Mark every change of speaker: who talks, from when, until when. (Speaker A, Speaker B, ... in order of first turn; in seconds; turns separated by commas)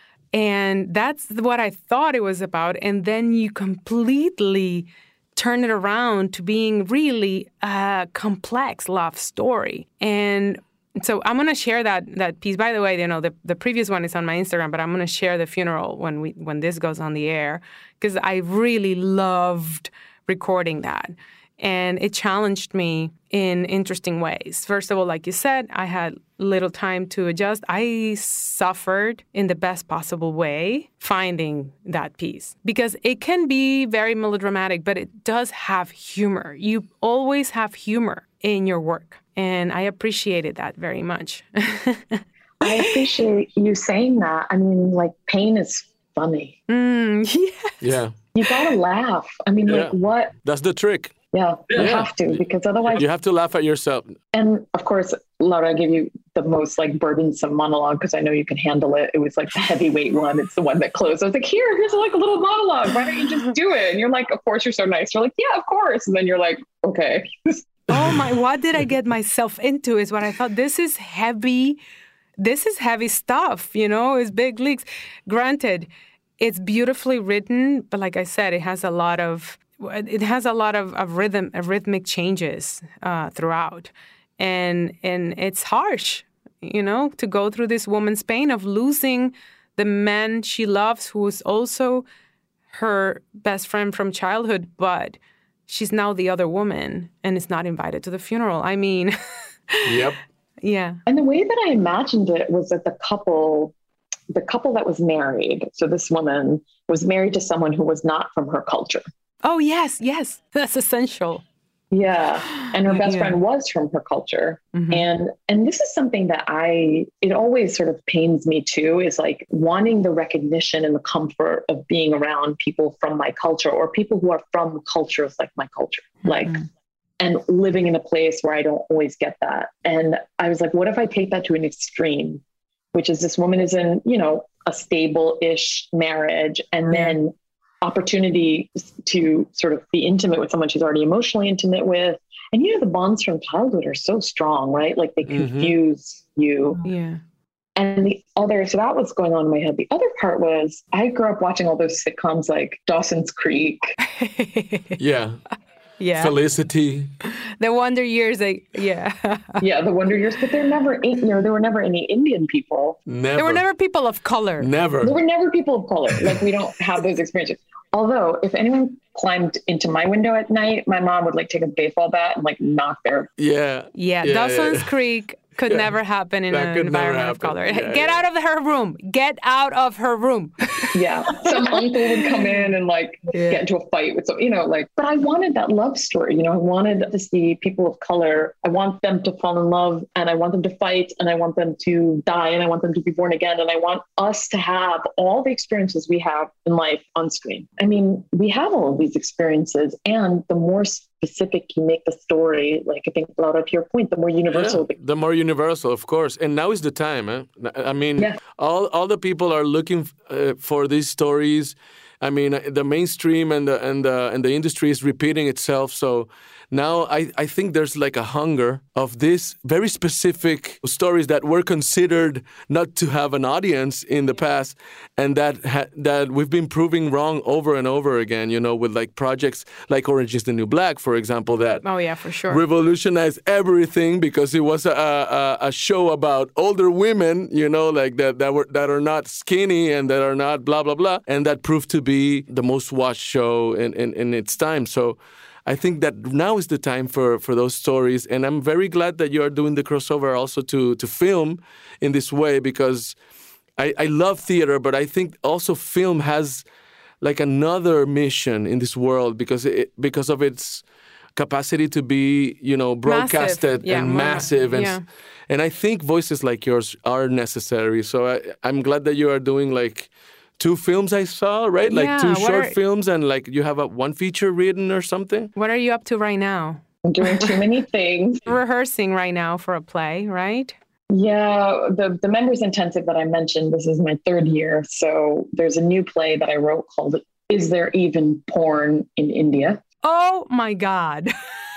Speaker A: 0.3-43.0, Speaker B: 42.6-46.6, Speaker A: 46.7-48.0, Speaker C: 47.8-48.1, Speaker B: 48.3-50.3, Speaker C: 49.7-51.1, Speaker B: 51.3-53.0, Speaker C: 51.7-52.4, Speaker C: 52.9-54.2, Speaker B: 54.3-67.7, Speaker A: 67.9-71.8, Speaker A: 72.4-75.9, Speaker A: 76.4-92.0, Speaker A: 92.7-99.2, Speaker A: 99.7-100.1, Speaker C: 99.8-100.2, Speaker A: 100.6-101.0, Speaker B: 101.1-103.7, Speaker B: 104.3-109.0, Speaker A: 109.4-111.4, Speaker B: 111.9-126.5, Speaker A: 112.5-113.4, Speaker A: 114.7-115.0, Speaker A: 126.2-126.7, Speaker B: 127.2-132.4, Speaker B: 132.9-146.8, Speaker C: 145.3-145.7, Speaker A: 146.8-147.2, Speaker B: 147.8-153.8, Speaker A: 154.0-155.0, Speaker C: 155.0-155.4, Speaker A: 156.0-156.3, Speaker C: 156.2-157.1, Speaker A: 157.2-159.6, Speaker B: 159.6-163.0, Speaker C: 163.1-163.6, Speaker A: 163.3-164.7, Speaker C: 164.6-165.2, Speaker B: 165.0-173.3, Speaker C: 173.4-174.9, Speaker A: 173.9-181.7, Speaker C: 176.5-178.2, Speaker B: 180.9-204.9, Speaker A: 182.3-182.6, Speaker A: 183.3-183.6, Speaker C: 204.5-231.8, Speaker A: 231.8-232.6, Speaker C: 232.5-253.2, Speaker C: 253.8-256.6, Speaker C: 257.2-260.8, Speaker C: 261.4-265.0, Speaker A: 263.1-265.0, Speaker C: 265.5-275.5, Speaker A: 271.9-272.8, Speaker A: 275.6-277.5, Speaker B: 277.0-278.5, Speaker A: 278.4-280.7, Speaker B: 281.1-289.8, Speaker A: 290.0-291.3